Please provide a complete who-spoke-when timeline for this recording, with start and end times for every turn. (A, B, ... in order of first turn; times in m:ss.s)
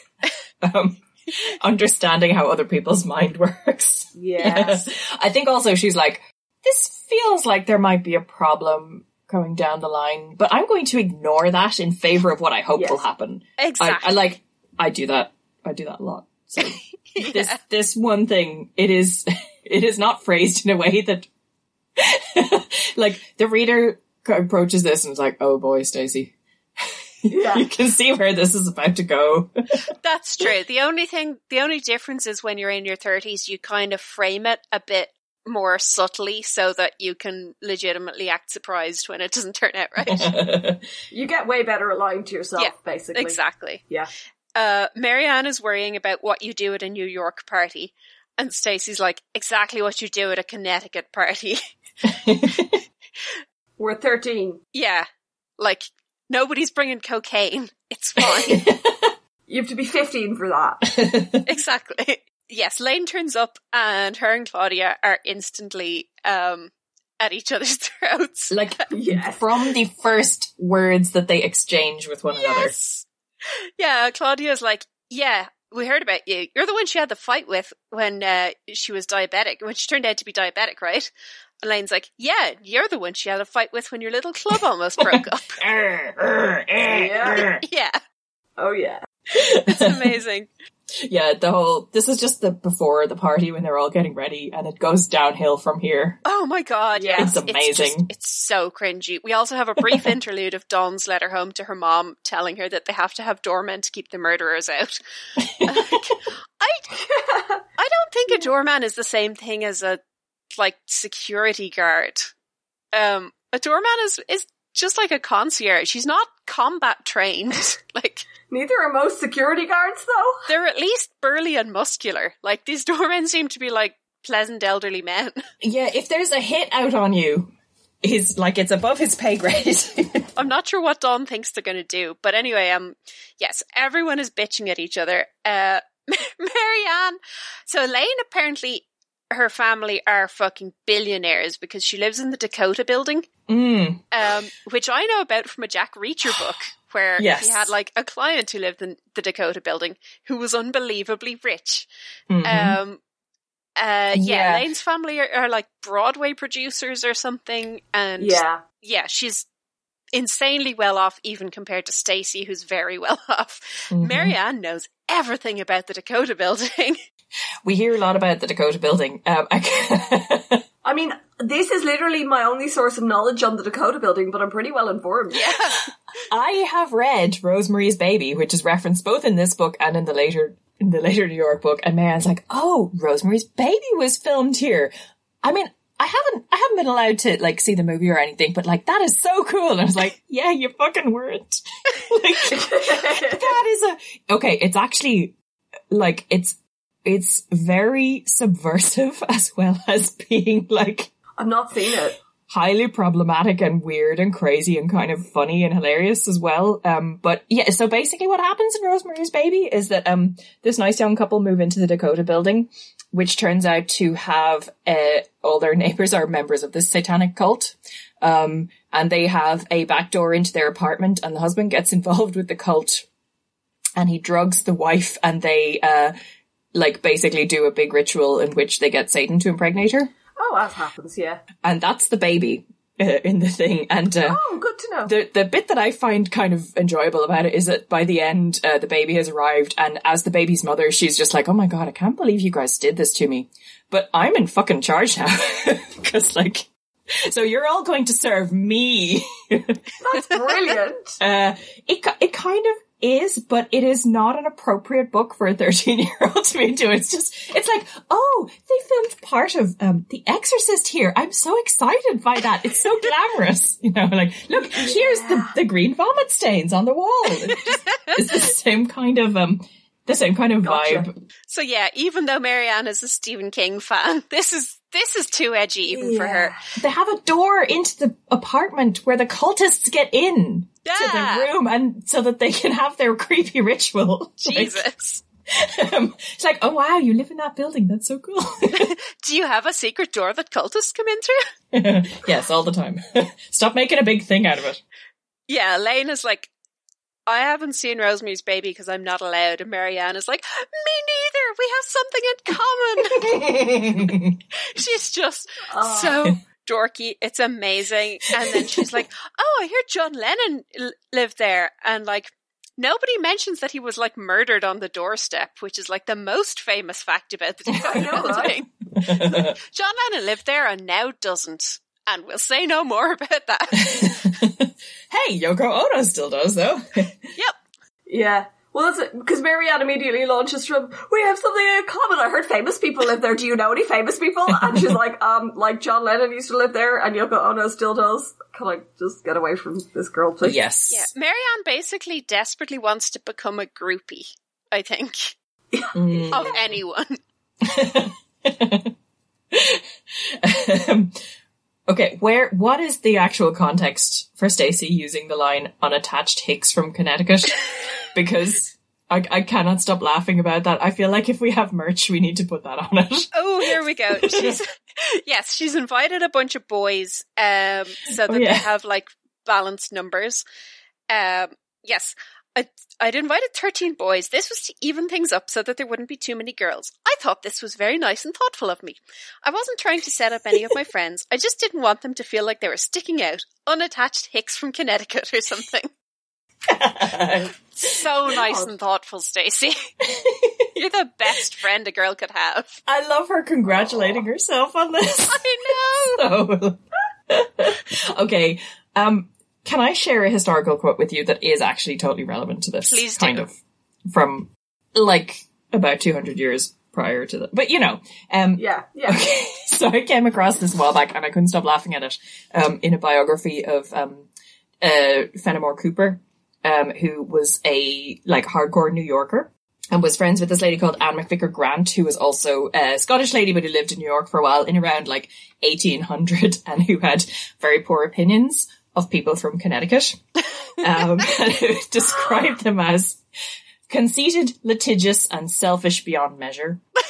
0:00.6-0:21.3 A
0:04.1-0:04.9 B
0:12.8-0:13.0 B
0:13.6-0:14.1 C
0:17.1-0:17.6 C
0:22.0-0:26.3 A
0:27.2-0:29.5 A
0:27.3-0:27.6 B
0:30.0-0:40.3 C
0:40.0-0:40.8 A
0:41.1-0:43.4 B
0:42.6-0:43.8 C
0:44.5-0:51.6 C
0:52.0-0:52.8 A
0:53.8-0:54.6 B
0:54.7-0:55.0 C
0:55.6-0:58.7 C
0:58.2-0:59.1 A
0:59.5-1:00.8 B
1:00.8-1:01.5 A
1:01.4-1:08.8 C
1:08.5-1:12.7 A
1:08.9-1:09.4 B
1:12.3-1:13.0 C
1:13.8-1:21.1 C
1:21.6-1:25.6 C
1:25.0-1:27.6 A
1:26.9-1:27.5 B
1:27.6-1:28.0 C
1:28.6-1:29.0 B
1:29.3-1:30.2 A
1:29.7-1:30.5 C
1:31.0-1:36.2 A
1:36.2-1:45.0 C
1:36.9-1:37.4 B
1:37.2-1:38.1 A
1:39.8-1:40.1 A
1:45.4-1:46.2 A
1:45.6-1:46.9 C
1:47.0-1:47.6 B
1:47.8-1:50.0 C
1:50.5-1:52.3 C
1:52.9-1:58.2 C
1:58.5-2:00.4 B
2:00.5-2:05.4 C
2:05.6-2:10.3 A
2:10.4-2:23.3 C
2:23.5-2:24.1 A
2:24.1-2:31.9 C
2:27.2-2:27.7 A
2:32.3-2:32.8 A
2:32.4-2:33.0 C
2:33.8-2:39.4 C
2:34.1-2:34.6 A
2:38.2-2:38.6 B
2:40.1-2:47.0 C
2:43.9-2:44.4 A
2:47.6-2:50.6 A
2:50.8-2:55.5 B
2:55.3-2:55.8 C
2:56.3-3:15.3 A
3:12.6-3:13.4 B
3:15.9-3:21.1 A
3:21.4-3:22.2 B
3:22.5-3:43.0 A
3:44.0-3:46.1 A
3:46.7-3:50.1 A
3:50.4-3:51.4 B
3:51.6-3:54.4 A
3:54.3-3:55.1 B
3:55.0-4:06.7 A
4:07.2-4:09.8 A
4:10.0-4:11.2 B
4:11.2-4:31.1 A
4:24.7-4:25.6 B
4:27.5-4:28.2 C
4:30.6-4:31.1 B
4:31.5-4:36.6 C
4:35.9-4:36.6 B
4:36.7-4:44.8 A
4:40.8-4:41.5 C
4:44.4-4:45.2 C
4:45.5-4:48.9 A
4:48.7-4:51.4 C
4:51.7-4:54.8 A
4:55.5-4:56.5 C
4:57.3-5:03.4 C
5:03.1-5:04.4 A
5:04.6-5:24.1 C
5:05.7-5:06.2 B
5:08.3-5:09.0 A
5:17.7-5:19.6 A
5:17.8-5:18.6 B
5:23.8-5:27.3 A
5:28.1-5:40.6 B
5:40.4-5:41.1 A
5:40.9-5:45.3 C
5:45.7-5:46.3 B
5:45.9-5:46.8 A
5:46.3-5:47.2 C
5:47.6-5:48.9 A
5:49.5-5:51.2 A
5:51.9-5:57.6 A
5:58.1-6:04.6 A
6:03.3-6:10.4 C
6:08.2-6:08.6 A
6:11.1-6:25.9 C
6:26.7-6:28.0 A
6:27.7-6:29.8 C
6:30.0-6:30.7 A
6:30.7-6:32.8 C
6:32.8-6:43.5 A
6:35.3-6:36.2 C
6:42.9-6:43.4 C
6:44.1-6:54.3 A
6:48.6-6:49.2 B
6:54.8-7:10.2 A
7:10.8-7:13.2 A
7:13.9-7:16.8 A